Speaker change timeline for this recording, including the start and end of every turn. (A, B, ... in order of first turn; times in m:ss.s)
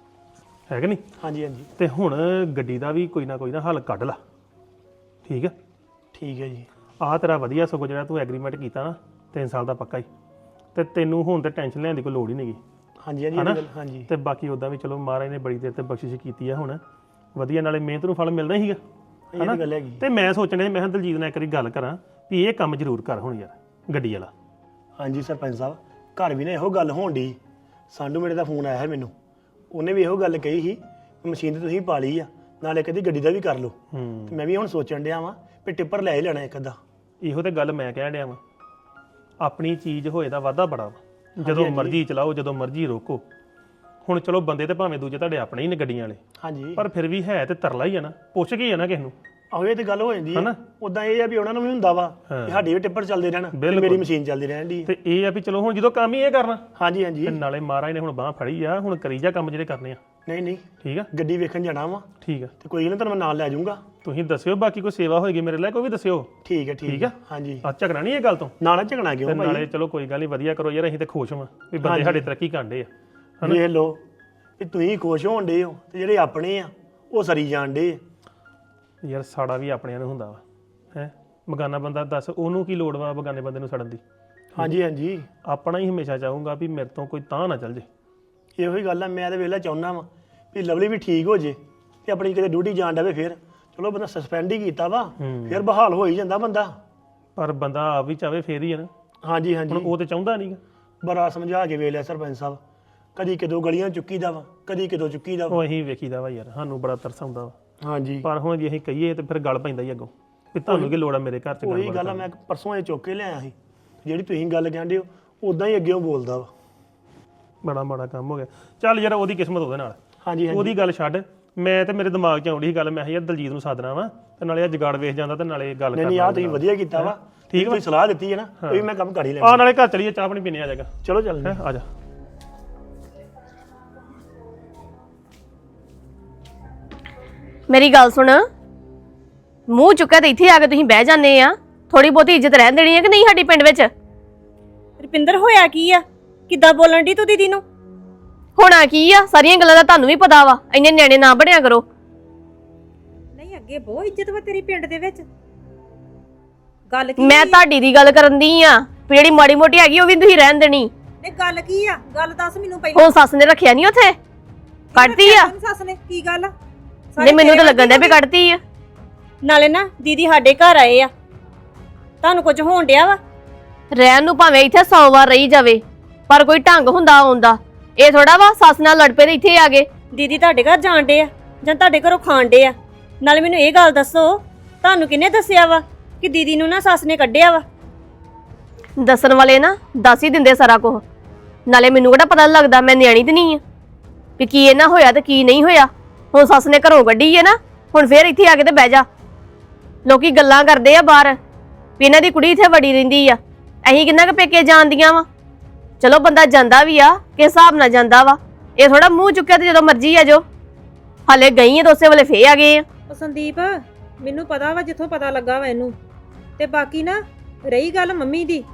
0:00.7-0:01.0 A
0:01.2-0:01.7 B
0:01.8-0:04.2 A
0:05.2-0:05.5 A
0:06.1-0:06.7 B
0:07.0-0:10.1 A
0:10.7-0:12.6 A
0:13.0-0:14.1 B
0:13.4-0:16.8 A
0:17.4-0:18.8 A
0:19.3-0:20.0 B
0:19.4-0:24.3 A
0:25.0-0:27.4 B
0:27.9-0:29.1 B
0:29.7-0:36.8 B
0:33.9-0:34.4 A
0:37.2-0:38.4 A
0:39.4-0:43.2 A
0:41.4-0:42.0 B
0:44.0-0:46.2 A
0:46.4-0:46.8 B
0:46.8-0:49.1 A
0:49.5-0:54.9 B
0:52.3-0:52.6 A
0:53.5-0:54.1 A
0:54.8-0:56.6 A
0:56.8-0:57.4 B
0:57.2-1:00.0 A
1:00.2-1:03.8 B
1:02.2-1:02.5 A
1:04.0-1:06.3 A
1:06.4-1:07.6 B
1:06.9-1:08.5 A
1:08.6-1:09.7 B
1:09.3-1:12.9 A
1:11.8-1:12.2 B
1:13.4-1:14.0 B
1:14.6-1:18.0 B
1:19.0-1:20.4 A
1:20.9-1:24.0 A
1:24.6-1:25.3 B
1:25.4-1:27.8 A
1:28.6-1:36.7 B
1:35.2-1:35.6 A
1:37.4-1:38.9 A
1:39.2-1:39.9 B
1:39.7-1:40.6 A
1:41.0-1:42.6 B
1:43.2-1:45.6 B
1:45.5-1:47.5 A
1:47.8-1:48.2 B
1:48.2-1:52.3 A
1:51.6-1:56.5 B
1:57.6-2:00.0 A
2:00.2-2:00.8 B
2:00.5-2:07.8 A
2:05.9-2:09.6 B
2:09.4-2:10.9 A
2:11.0-2:11.6 B
2:11.4-2:11.8 A
2:17.7-2:18.4 C
2:19.7-2:23.9 C
2:25.0-2:27.6 D
2:28.6-2:31.8 C
2:33.4-2:35.2 E
2:36.9-2:37.6 E
2:37.2-2:40.9 C
2:41.2-2:43.1 E
2:42.9-2:44.2 C
2:44.9-2:46.5 E
2:44.9-2:45.5 C
2:47.1-2:48.2 E
2:47.2-2:48.6 C
2:49.4-2:51.1 D
2:52.2-2:53.2 D
2:53.9-2:59.9 C
3:00.1-3:07.6 D
3:09.0-3:11.0 C
3:11.7-3:13.6 C
3:14.4-3:19.0 C
3:20.1-3:21.4 C
3:22.0-3:25.2 C
3:26.0-3:30.4 C
3:31.3-3:32.8 C
3:33.1-3:33.6 E
3:34.3-3:35.8 E
3:36.6-3:37.1 E
3:37.7-3:38.6 E